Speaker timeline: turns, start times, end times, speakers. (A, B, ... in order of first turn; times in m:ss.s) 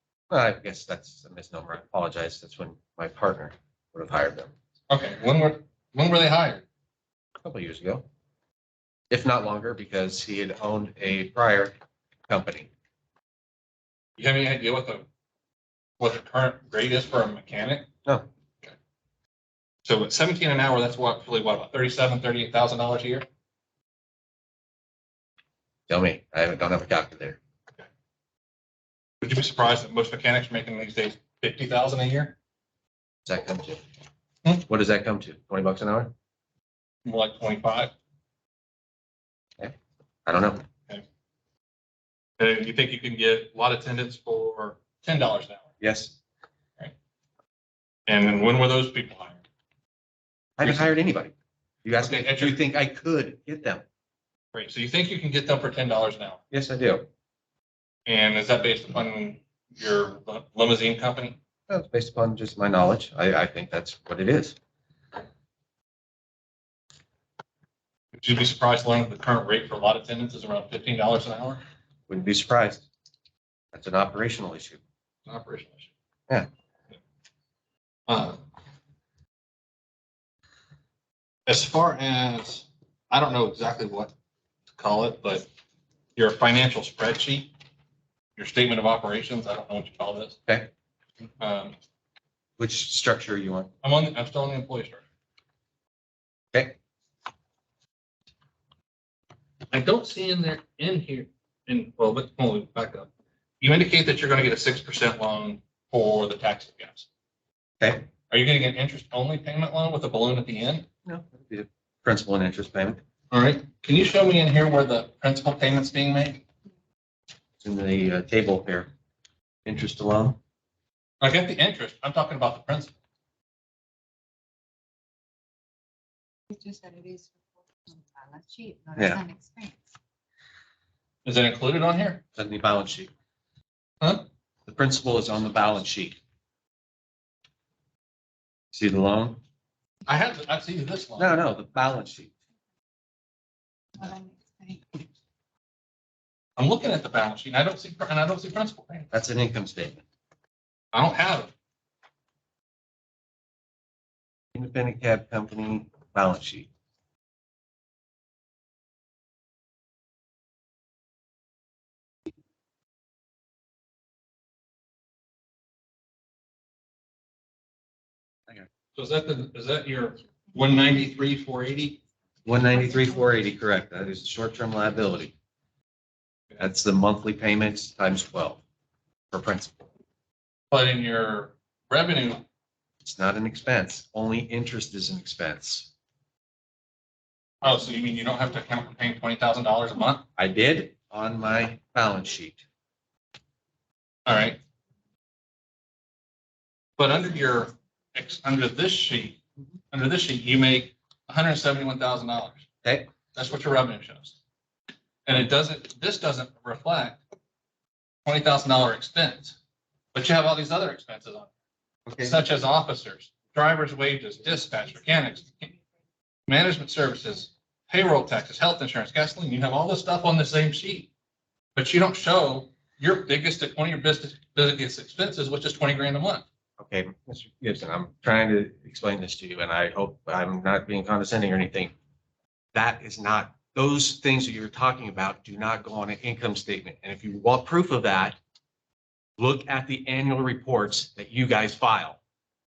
0:00.3-0:04.5 A
0:04.9-0:06.6 B
0:07.4-0:08.0 A
0:09.1-0:11.7 A
0:12.3-0:12.7 A
0:14.2-0:15.0 B
0:16.0-0:17.9 B
0:19.8-0:23.2 B
0:25.9-0:27.4 A
0:29.2-0:32.4 B
0:33.2-0:33.8 A
0:34.6-0:36.1 A
0:37.0-0:37.9 B
0:40.2-0:40.6 A
0:42.4-0:45.7 B
0:45.8-0:46.2 A
0:48.1-0:49.4 B
0:50.6-0:53.8 A
0:52.0-0:52.6 B
0:54.5-0:56.4 B
0:56.5-0:57.1 A
0:58.1-1:01.4 B
1:01.7-1:04.6 A
1:08.1-1:11.6 B
1:12.1-1:12.8 A
1:13.7-1:14.8 A
1:15.3-1:15.9 B
1:18.1-1:18.4 B
1:21.5-1:24.1 B
1:24.8-1:25.5 B
1:26.2-1:27.5 B
1:28.4-1:30.4 B
1:31.4-1:31.8 B
1:32.6-1:33.7 A
1:33.8-1:35.0 B
1:39.7-1:43.1 B
1:43.6-1:47.1 B
1:47.8-1:48.1 A
1:48.3-1:50.9 B
1:51.0-1:53.0 A
1:53.3-1:56.4 B
1:57.6-1:58.9 A
1:59.6-2:00.4 A
2:01.2-2:02.9 B
2:06.5-2:09.8 C
2:11.2-2:12.2 B
2:12.3-2:13.1 A
2:14.6-2:16.2 A
2:18.7-2:19.4 A
2:20.1-2:21.4 B
2:21.2-2:22.3 A
2:24.0-2:24.9 C
2:26.6-2:29.1 B
2:29.1-2:30.0 A
2:30.9-2:31.5 B
2:34.5-2:36.7 A
2:48.9-2:52.0 B
2:52.4-2:55.3 A
2:56.6-2:58.6 A
2:59.3-2:59.8 A
3:00.7-3:02.4 B
3:03.0-3:05.9 A
3:07.6-3:10.2 B
3:10.4-3:12.6 A
3:14.2-3:14.6 B
3:17.0-3:22.6 B
3:23.3-3:24.4 B
3:25.2-3:27.2 B
3:28.2-3:29.6 B
3:30.1-3:31.5 B
3:32.1-3:32.4 A
3:32.2-3:35.7 B
3:36.5-3:41.1 B
3:41.8-3:46.4 B
3:46.8-3:51.9 A
3:52.7-3:58.4 A
3:59.4-4:02.2 A